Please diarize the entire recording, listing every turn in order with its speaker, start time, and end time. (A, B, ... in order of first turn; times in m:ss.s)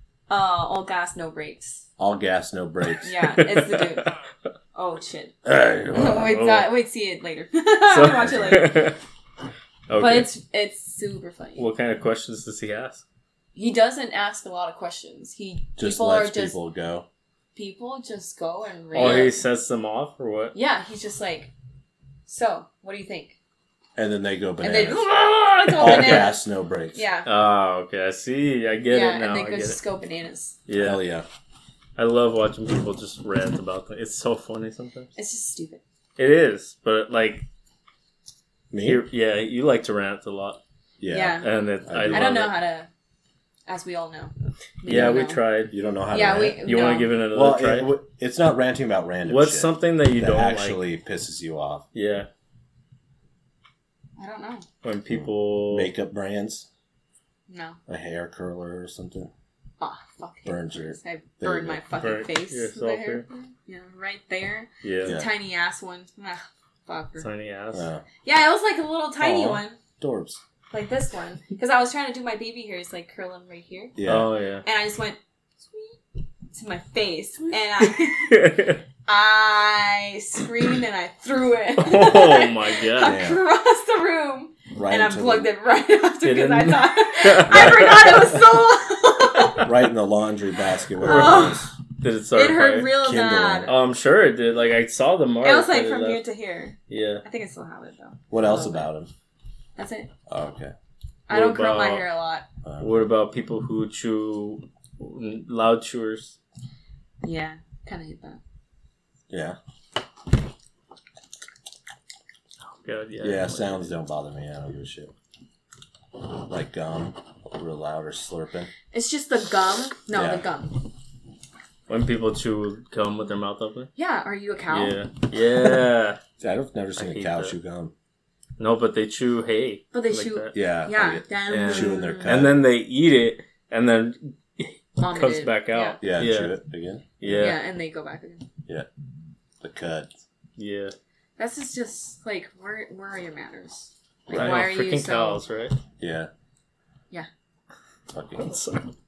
0:00.3-0:01.8 A
0:02.0-0:03.1 B
0:03.0-0:04.1 A
0:03.4-0:03.9 C
0:04.8-0:05.4 A
0:05.4-0:06.3 B
0:05.9-0:08.9 A
0:06.0-0:06.7 C
0:07.9-0:09.0 C
0:08.2-0:08.7 B
0:09.9-0:10.3 C
0:10.0-0:11.7 A
0:11.6-0:13.0 C
0:13.6-0:16.6 A
0:15.8-0:17.1 B
0:17.6-0:19.4 A
0:18.9-0:20.6 C
0:19.0-0:19.3 B
0:20.5-0:21.5 A
0:22.3-0:23.4 A
0:24.0-0:25.1 B
0:24.6-0:26.4 A
0:25.8-0:26.3 C
0:25.8-0:27.0 B
0:26.9-0:27.3 A
0:27.3-0:29.8 C
0:28.9-0:30.6 A
0:30.7-0:31.0 C
0:30.8-0:31.3 B
0:32.0-0:35.1 C
0:35.2-0:35.8 A
0:36.2-0:37.5 C
0:38.7-0:39.0 B
0:38.8-0:40.6 C
0:41.0-0:42.4 B
0:41.1-0:41.5 A
0:41.4-0:42.6 C
0:42.1-0:42.9 A
0:43.7-0:45.4 A
0:44.8-0:45.8 C
0:44.9-0:46.7 B
0:46.1-0:47.2 A
0:46.6-0:47.9 C
0:47.3-0:51.8 B
0:49.3-0:50.8 C
0:51.9-0:52.3 C
0:54.2-0:54.7 A
0:54.8-0:55.9 C
0:55.1-0:56.7 B
0:57.5-0:57.8 A
0:57.9-0:59.3 B
0:59.8-1:07.3 A
1:00.5-1:01.8 B
1:01.9-1:03.2 C
1:04.8-1:05.2 C
1:05.0-1:05.3 B
1:07.2-1:07.9 C
1:07.7-1:08.0 B
1:08.2-1:09.8 A
1:09.2-1:10.4 B
1:10.7-1:14.0 A
1:14.0-1:14.3 B
1:14.0-1:14.6 C
1:14.6-1:16.0 A
1:16.5-1:18.6 A
1:17.9-1:18.8 C
1:19.1-1:29.7 A
1:21.8-1:23.2 C
1:23.0-1:23.4 B
1:24.8-1:25.5 B
1:26.2-1:28.4 C
1:27.5-1:28.0 B
1:29.6-1:31.8 B
1:31.0-1:31.7 A
1:31.1-1:31.5 C
1:32.0-1:33.0 C
1:32.3-1:33.7 A
1:33.0-1:33.7 B
1:33.7-1:36.2 C
1:35.4-1:38.9 A
1:36.9-1:37.2 C
1:38.3-1:39.1 B
1:39.8-1:40.1 A
1:40.3-1:40.7 B
1:41.3-1:42.4 A
1:41.3-1:42.1 C
1:42.6-1:43.0 B
1:42.8-1:46.4 C
1:47.2-1:48.4 A
1:49.3-1:49.6 B
1:52.7-1:53.9 C
1:53.2-1:55.1 B
1:56.3-1:58.7 B
1:58.9-2:00.9 A
2:00.1-2:00.4 B
2:01.9-2:03.9 C
2:04.0-2:05.0 A
2:04.7-2:06.2 C
2:06.4-2:07.9 B
2:07.0-2:07.5 C
2:08.6-2:10.5 C
2:09.9-2:12.5 A
2:10.5-2:12.6 B
2:11.5-2:16.6 C
2:15.0-2:16.0 A
2:16.0-2:17.6 B
2:17.2-2:17.6 C
2:17.4-2:18.5 A
2:19.6-2:20.1 B
2:20.6-2:21.0 C
2:21.4-2:25.4 A
2:24.3-2:24.6 B
2:24.3-2:25.8 C
2:26.0-2:26.3 B
2:28.1-2:28.6 B
2:28.4-2:28.9 C